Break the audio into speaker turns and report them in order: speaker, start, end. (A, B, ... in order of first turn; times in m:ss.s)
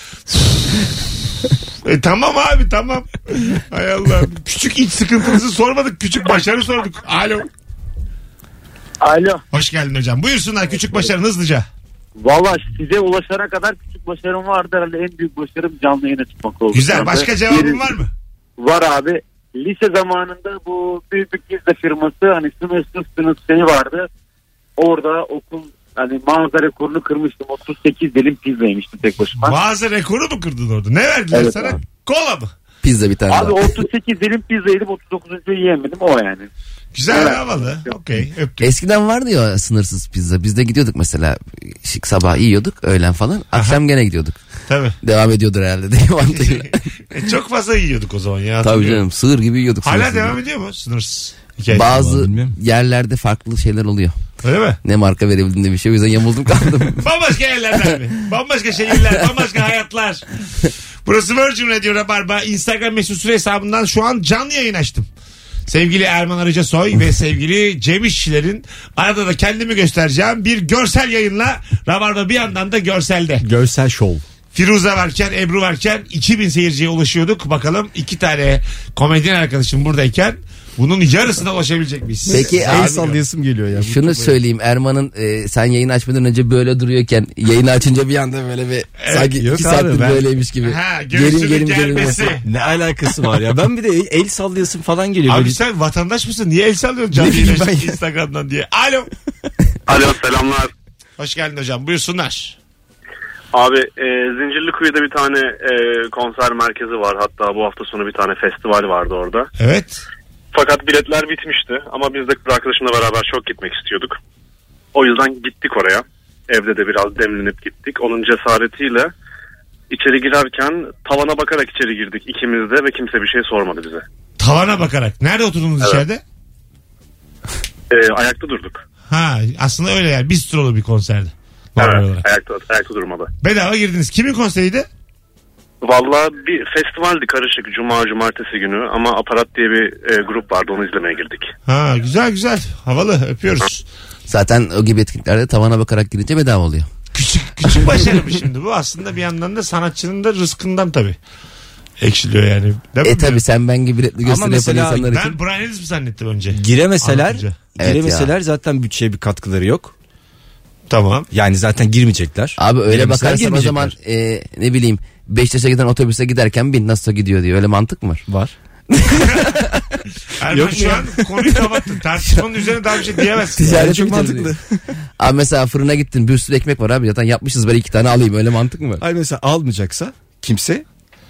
0:01.8-0:07.5 A
0:09.0-0:09.4 B
0:09.5-0:11.7 A
0:12.2-0:17.9 B
0:16.7-0:18.1 A
0:18.6-0:24.1 B
0:24.8-0:29.6 B
0:29.4-0:32.5 A
0:31.3-0:31.8 B
0:32.8-0:33.7 C
0:33.3-0:36.5 B
0:37.0-0:38.7 A
0:37.1-0:37.8 B
0:38.6-0:44.4 C
0:43.5-0:43.8 A
0:44.7-0:45.0 A
0:45.0-0:46.8 C
0:46.3-0:49.0 A
0:48.6-0:50.4 C
0:49.8-0:52.0 A
0:51.7-0:54.2 C
0:51.9-0:52.5 D
0:54.4-0:54.8 A
0:54.8-0:57.0 C
0:57.0-1:00.2 A
1:01.0-1:05.1 A
1:05.7-1:13.4 A
1:13.4-1:14.2 D
1:14.5-1:23.2 A
1:22.3-1:24.4 D
1:22.3-1:23.0 C
1:23.8-1:32.4 C
1:29.0-1:29.4 A
1:29.3-1:30.2 D
1:30.6-1:32.5 A
1:32.4-1:35.6 D
1:35.3-1:39.1 A
1:37.2-1:38.0 D
1:39.9-1:40.7 E
1:41.2-1:42.6 A
1:43.5-1:49.5 E
1:49.6-1:50.0 A
1:50.5-1:54.2 E
1:54.9-1:59.1 E
1:59.9-2:04.0 E
2:04.4-2:06.2 A
2:07.9-2:08.8 E
2:09.1-2:12.2 A
2:11.8-2:13.3 E
2:13.4-2:14.9 A
2:15.8-2:21.5 E
2:21.7-2:23.8 A
2:24.3-2:26.9 C
2:27.1-2:31.2 A
2:32.0-2:33.4 A
2:33.0-2:35.4 C
2:34.2-2:35.1 D
2:35.1-2:37.6 A
2:36.5-2:39.9 D
2:37.8-2:38.3 C
2:40.9-2:41.3 A
2:41.3-2:43.9 D
2:42.6-2:48.2 C
2:48.3-2:48.5 D
2:48.9-2:49.6 C
2:50.4-2:53.8 A
2:50.5-2:51.5 D
2:53.6-2:54.5 C
2:53.6-2:54.8 D
2:55.2-2:59.0 C
2:59.0-3:00.8 D